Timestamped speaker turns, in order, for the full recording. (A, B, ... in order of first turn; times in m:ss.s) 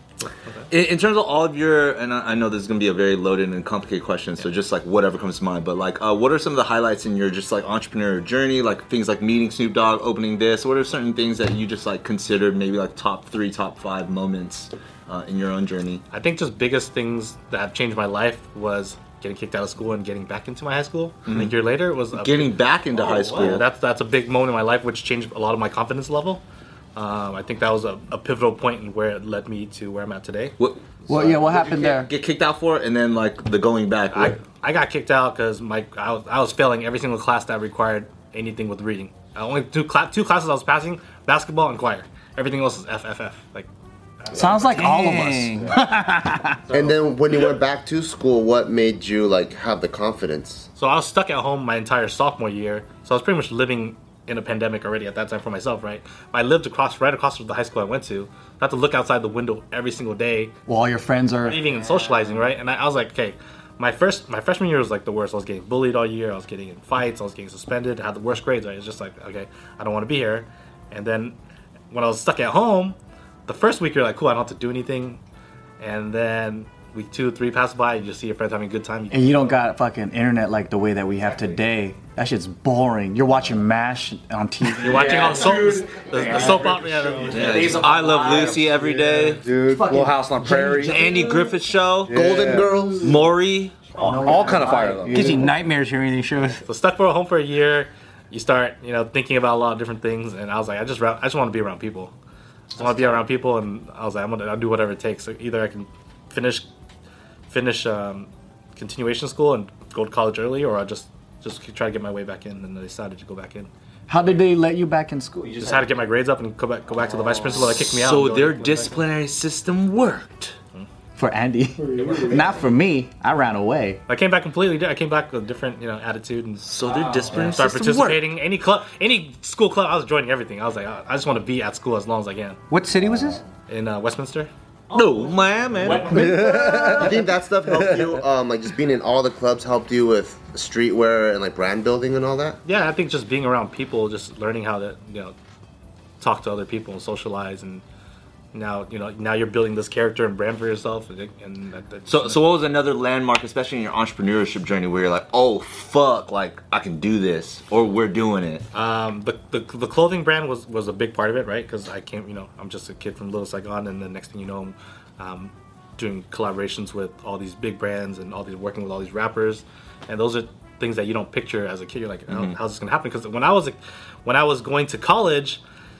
0:00.7-0:16.0 A
0:16.1-0:22.6 B
0:21.2-0:21.5 A
0:22.1-0:23.7 A
0:23.2-0:26.4 B
0:27.0-0:30.6 B
0:30.6-0:34.4 A
0:31.1-0:32.1 C
0:34.1-0:43.7 B
0:44.3-0:46.6 C
0:44.6-0:45.7 A
0:44.8-0:45.2 D
0:46.7-0:50.7 E
0:50.8-1:00.6 B
1:00.7-1:01.7 C
1:01.4-1:11.4 B
1:11.9-1:15.2 B
1:15.8-1:19.6 B
1:19.1-1:26.7 C
1:24.8-1:27.8 B
1:25.1-1:27.4 F
1:27.3-1:29.4 A
1:27.3-1:28.8 C
1:28.3-1:31.1 F
1:29.6-1:31.3 C
1:30.8-1:32.2 A
1:32.1-1:33.2 F
1:32.1-1:33.2 E
1:33.0-1:33.8 A
1:34.0-1:35.5 C
1:34.0-1:35.5 F
1:34.1-1:36.6 D
1:36.6-1:42.1 B
1:42.7-1:46.7 B
1:47.5-1:53.7 B
1:54.1-1:55.9 C
1:55.6-1:58.9 B
1:57.6-2:00.6 A
2:01.2-2:04.0 C
2:01.9-2:02.4 F
2:04.1-2:06.7 B
2:06.6-2:07.9 A
2:07.3-2:08.0 C
2:07.3-2:12.6 B
2:12.7-2:13.4 D
2:13.7-2:14.5 B
2:14.9-2:16.4 A
2:15.8-2:17.0 D
2:15.9-2:17.2 F
2:16.9-2:22.6 E
2:22.6-2:25.3 B
2:26.2-2:27.8 B
2:28.5-2:32.4 B
2:32.1-2:38.6 A
2:38.7-2:55.6 B
2:52.3-2:52.6 A